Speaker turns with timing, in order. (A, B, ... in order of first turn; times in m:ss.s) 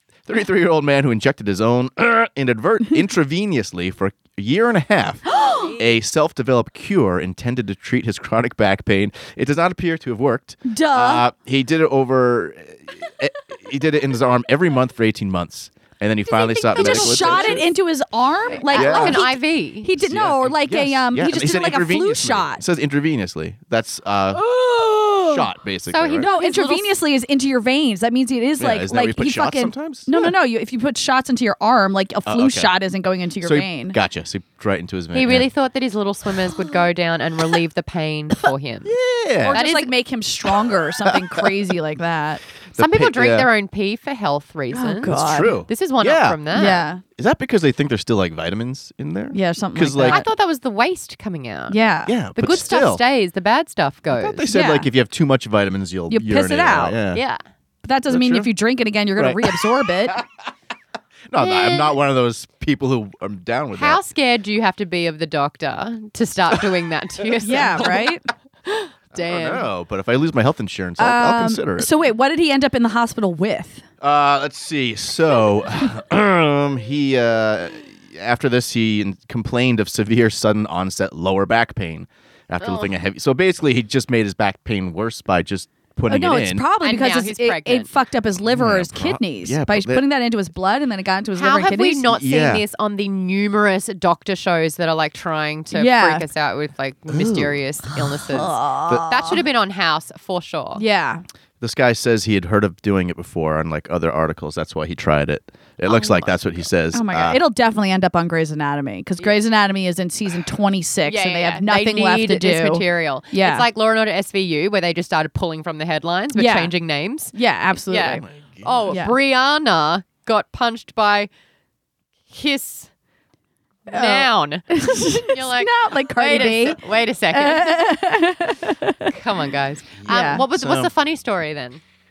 0:00.2-0:17.7 A
0:05.2-0:05.7 B
0:05.4-0:05.8 C
0:10.6-0:11.2 B
0:16.2-0:22.6 B
0:16.8-0:17.6 C
0:18.5-0:19.9 C
0:18.7-0:19.3 A
0:20.0-0:24.4 A
0:24.3-0:25.5 B
0:25.2-0:26.3 A
0:25.9-0:26.9 C
0:26.2-0:34.0 B
0:28.6-0:30.3 A
0:32.2-0:32.7 A
0:33.4-0:35.5 A
0:35.1-0:39.9 C
0:38.8-0:39.6 A
0:39.4-0:42.4 B
0:41.0-0:41.5 A
0:42.7-0:43.5 A
0:42.8-0:46.8 C
0:44.7-0:45.6 B
0:45.0-0:46.4 A
0:46.5-0:47.0 B
0:47.2-0:50.2 A
0:49.3-0:50.2 B
0:50.0-0:51.8 C
0:51.7-0:52.1 B
0:52.1-0:53.0 A
0:52.4-0:54.5 C
0:54.1-0:57.2 A
0:54.5-0:54.9 B
0:56.1-0:57.0 B
0:57.1-0:57.4 C
0:57.8-1:00.2 B
0:58.1-0:58.5 A
0:59.2-1:00.3 A
1:01.3-1:04.0 A
1:01.4-1:02.0 C
1:03.7-1:08.1 C
1:07.4-1:08.2 B
1:08.6-1:09.7 C
1:09.2-1:11.9 A
1:11.0-1:13.8 B
1:14.0-1:26.6 A
1:22.6-1:22.9 C
1:26.1-1:32.0 B
1:26.8-1:27.9 C
1:28.4-1:30.0 A
1:31.3-1:40.8 C
1:32.0-1:32.6 A
1:35.7-1:36.2 B
1:37.1-1:37.5 A
1:38.3-1:39.4 B
1:40.8-1:41.2 B
1:41.6-1:47.4 A
1:45.8-1:46.6 C
1:46.9-1:53.6 B
1:51.0-1:57.3 C
1:56.3-1:56.7 B
1:57.3-1:58.2 B
1:57.9-2:01.3 C
1:58.0-1:58.9 A
1:58.9-1:59.1 B
2:02.3-2:02.9 C
2:03.9-2:07.8 C
2:03.9-2:09.2 B
2:09.1-2:11.8 C
2:10.0-2:10.9 A
2:10.1-2:10.4 B